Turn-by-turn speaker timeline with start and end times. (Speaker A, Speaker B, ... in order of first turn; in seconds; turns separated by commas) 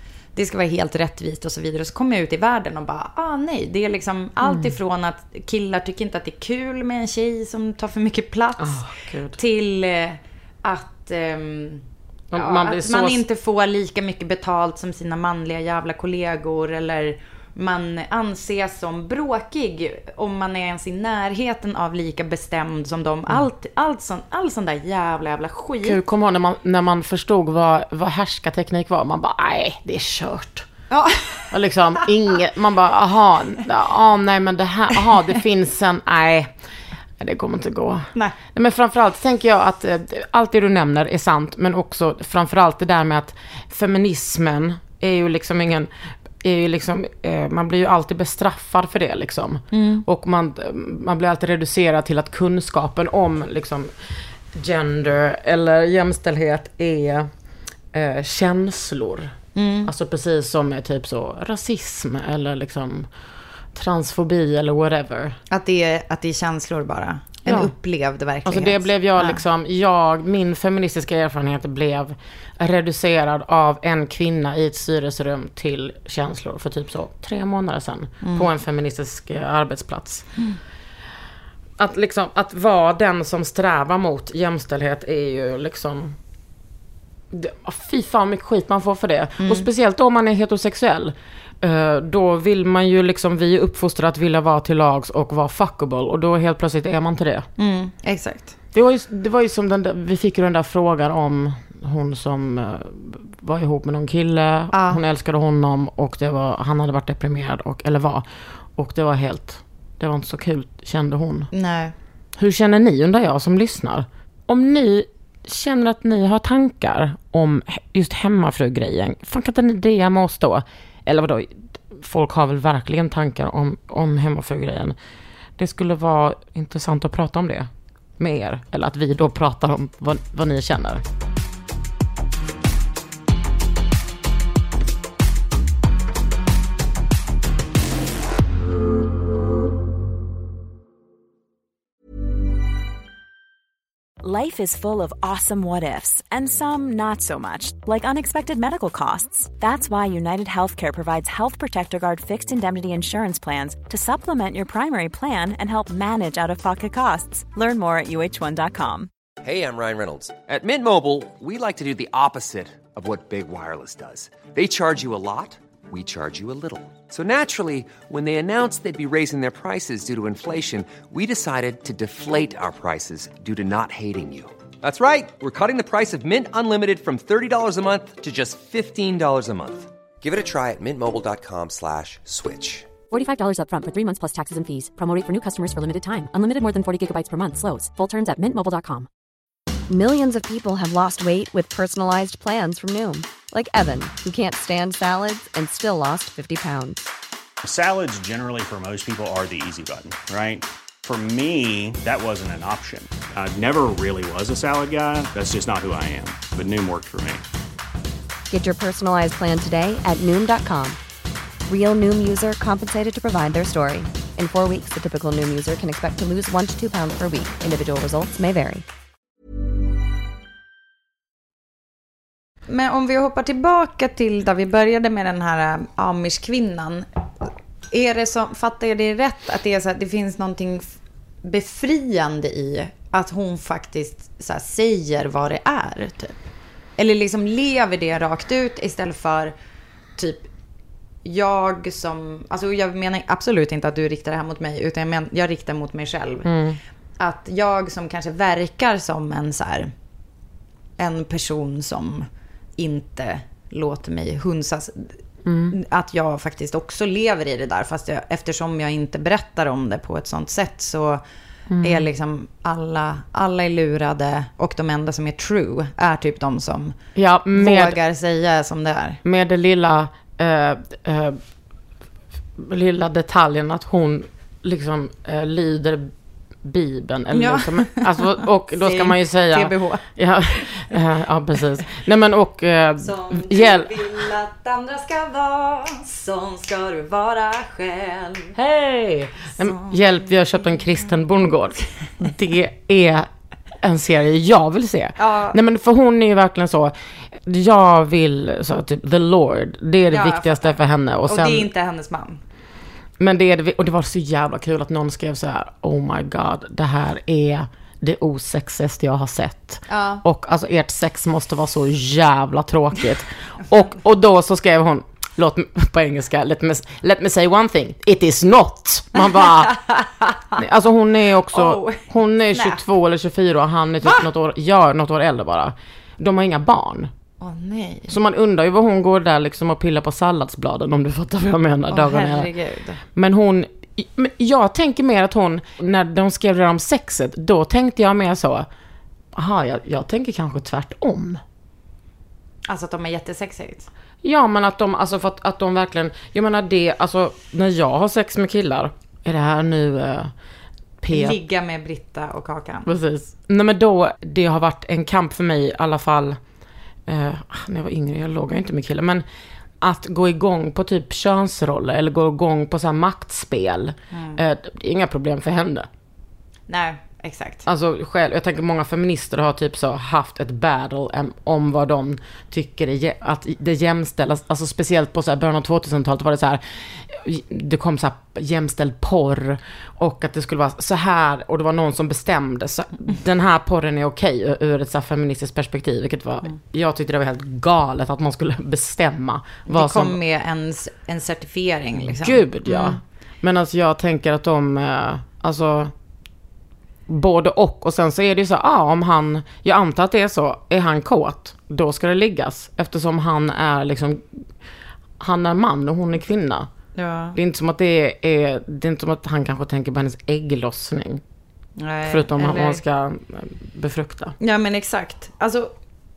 Speaker A: 0.3-26.0, Speaker B: 4.4-4.8, Speaker B: 8.6-9.4, Speaker B: 12.3-13.2, Speaker B: 25.8-30.7, Speaker A: 30.9-31.5, Speaker B: 31.5-36.5, Speaker B: 37.2-45.9, Speaker B: 46.4-53.9, Speaker A: 49.7-50.0, Speaker B: 54.5-57.3, Speaker B: 57.9-63.1, Speaker A: 59.5-59.9, Speaker B: 63.7-65.4, Speaker A: 65.5-69.4, Speaker B: 67.5-67.7, Speaker B: 68.5-80.3, Speaker A: 78.2-78.5, Speaker B: 81.8-86.2, Speaker B: 87.3-97.5, Speaker A: 89.4-89.7, Speaker A: 97.6-98.6, Speaker B: 98.7-111.5, Speaker A: 104.7-105.0, Speaker A: 111.5-112.0, Speaker B: 112.4-125.0, Speaker B: 125.6-131.0, Speaker C: 144.2-159.1, Speaker D: 159.4-182.9, Speaker E: 183.1-189.1, Speaker F: 189.9-197.0, Speaker G: 197.6-207.4, Speaker F: 208.5-211.0, Speaker F: 211.7-218.8, Speaker A: 222.7-236.4, Speaker A: 237.0-239.5, Speaker A: 240.2-240.5, Speaker A: 241.2-246.5, Speaker B: 246.4-246.8, Speaker A: 247.2-249.9, Speaker A: 251.0-252.3, Speaker A: 252.8-255.2, Speaker B: 255.5-255.8, Speaker A: 255.7-261.2, Speaker B: 261.7-262.1, Speaker A: 261.8-266.9, Speaker B: 267.2-268.0, Speaker A: 267.6-269.2, Speaker B: 269.2-271.4, Speaker B: 272.6-276.1, Speaker B: 276.6-284.3, Speaker A: 277.3-280.7, Speaker A: 283.0-288.6, Speaker B: 288.6-293.3, Speaker A: 289.6-290.0, Speaker B: 293.8-301.7, Speaker A: 295.2-295.6, Speaker A: 300.1-302.4, Speaker B: 303.2-319.8, Speaker A: 309.9-310.2, Speaker A: 319.4-320.6, Speaker B: 320.6-327.1, Speaker A: 321.5-322.0, Speaker A: 322.5-322.8, Speaker A: 327.4-328.2, Speaker B: 328.1-332.5, Speaker A: 331.9-333.0, Speaker B: 333.1-338.7, Speaker B: 339.3-341.4, Speaker A: 342.7-343.9, Speaker B: 344.2-350.3, Speaker B: 351.0-351.4, Speaker A: 351.1-352.9, Speaker B: 352.9-356.4, Speaker B: 357.1-359.2, Speaker B: 359.8-365.9, Speaker A: 364.1-364.4, Speaker A: 366.7-367.6, Speaker B: 367.7-390.2, Speaker A: 389.7-393.0, Speaker B: 392.0-395.9, Speaker B: 397.1-404.4, Speaker B: 405.2-406.7, Speaker A: 407.0-407.4, Speaker B: 407.4-411.2, Speaker A: 411.8-412.8, Speaker B: 412.1-414.3, Speaker A: 414.4-415.7